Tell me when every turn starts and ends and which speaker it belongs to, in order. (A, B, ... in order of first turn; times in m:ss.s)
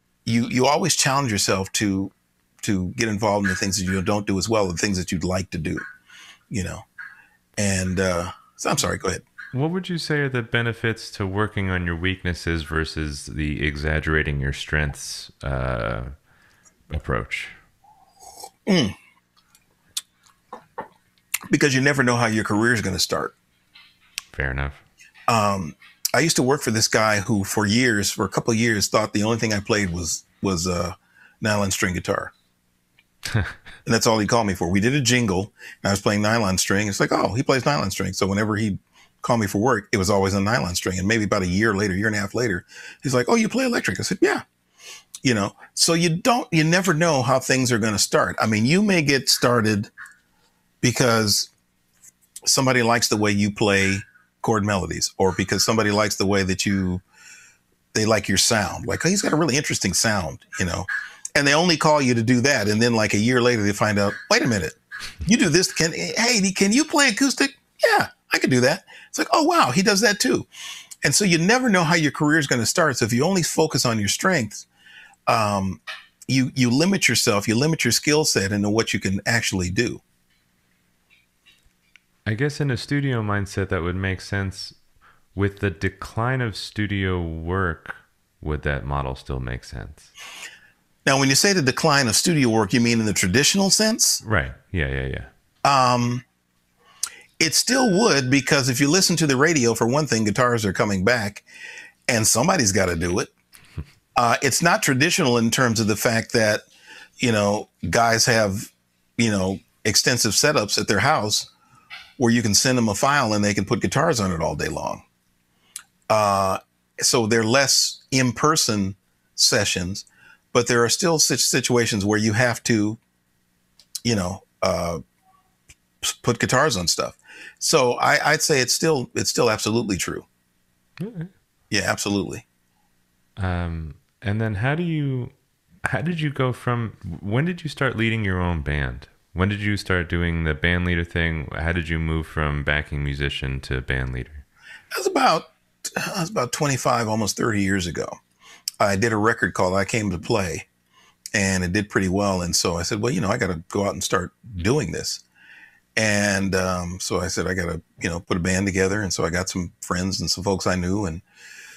0:00.2-0:05.8 A
0:06.5-0:06.8 A
0:07.6-0:09.2 A
0:09.5-0:16.1 B
0:16.9-0:17.5 B
0:18.7-0:18.9 A
0:21.5-0:23.3 A
0:24.3-0:24.8 B
0:25.3-0:32.3 A
0:33.8-0:44.4 A
0:45.2-0:49.9 A
0:50.8-0:51.5 A
0:52.4-0:57.0 A
0:57.9-1:10.5 A
1:11.0-1:14.7 A
1:15.3-1:20.0 A
1:22.2-1:24.8 B
1:25.3-1:30.1 B
1:31.0-1:34.2 A
1:34.2-1:35.3 B
1:35.6-1:36.2 A
1:37.4-1:41.4 A
1:42.1-1:43.3 A
1:44.2-1:46.6 A
1:47.2-1:51.5 A
1:52.2-1:55.0 A
1:56.1-2:03.0 A
2:04.0-2:05.0 A
2:06.0-2:10.2 A
2:11.0-2:11.3 B
2:11.7-2:12.4 A
2:13.4-2:15.3 B
2:15.8-2:24.4 B
2:25.0-2:28.2 A
2:28.8-2:30.7 A
2:31.3-2:35.2 A
2:36.0-2:41.2 A